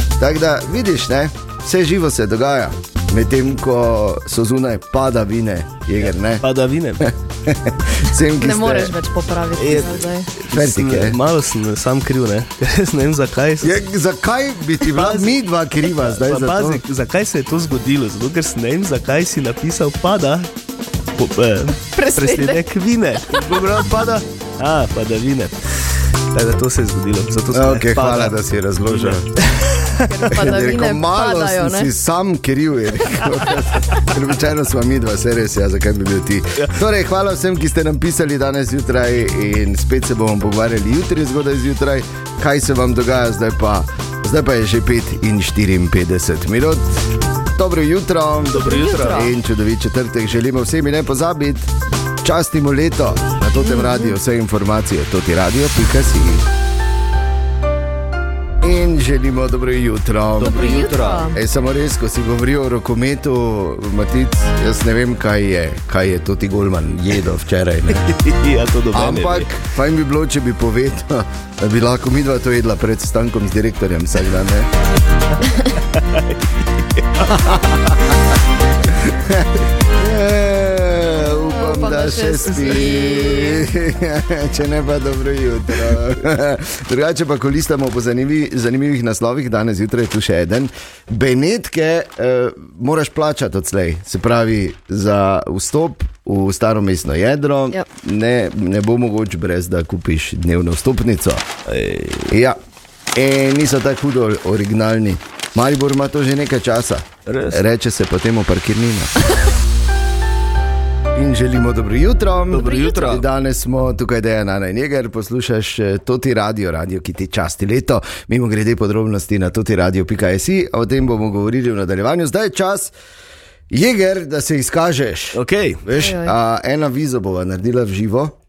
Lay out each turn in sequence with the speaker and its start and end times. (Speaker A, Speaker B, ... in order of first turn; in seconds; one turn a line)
Speaker A: 0.2-6.5
Speaker B: 6.0-7.1
Speaker A: 7.0-8.9
Speaker C: 8.4-10.3
Speaker B: 9.6-13.8
Speaker A: 10.5-11.2
Speaker A: 13.6-16.8
Speaker B: 14.8-20.5
Speaker B: 21.2-25.6
Speaker C: 21.9-22.6
Speaker B: 26.3-30.4
Speaker A: 27.5-29.3
Speaker C: 30.1-31.9
Speaker A: 30.3-46.9
Speaker A: 47.6-51.7
Speaker B: 48.5-49.2
Speaker C: 48.6-49.3
Speaker A: 52.2-56.5
Speaker C: 53.6-54.1
Speaker A: 58.6-68.1
Speaker B: 60.4-61.2
Speaker C: 60.4-61.4
Speaker B: 68.0-69.5
Speaker A: 68.9-74.7
Speaker B: 75.8-77.9
Speaker A: 78.8-101.5
Speaker C: 81.2-83.7
Speaker B: 82.5-83.0
Speaker B: 101.7-102.3
Speaker A: 102.3-102.6
Speaker A: 103.2-109.1
Speaker B: 107.3-107.6
Speaker A: 111.1-122.9
Speaker B: 112.5-113.2
Speaker C: 112.6-113.2
Speaker A: 123.7-128.3
Speaker B: 125.3-125.8
Speaker C: 126.0-126.3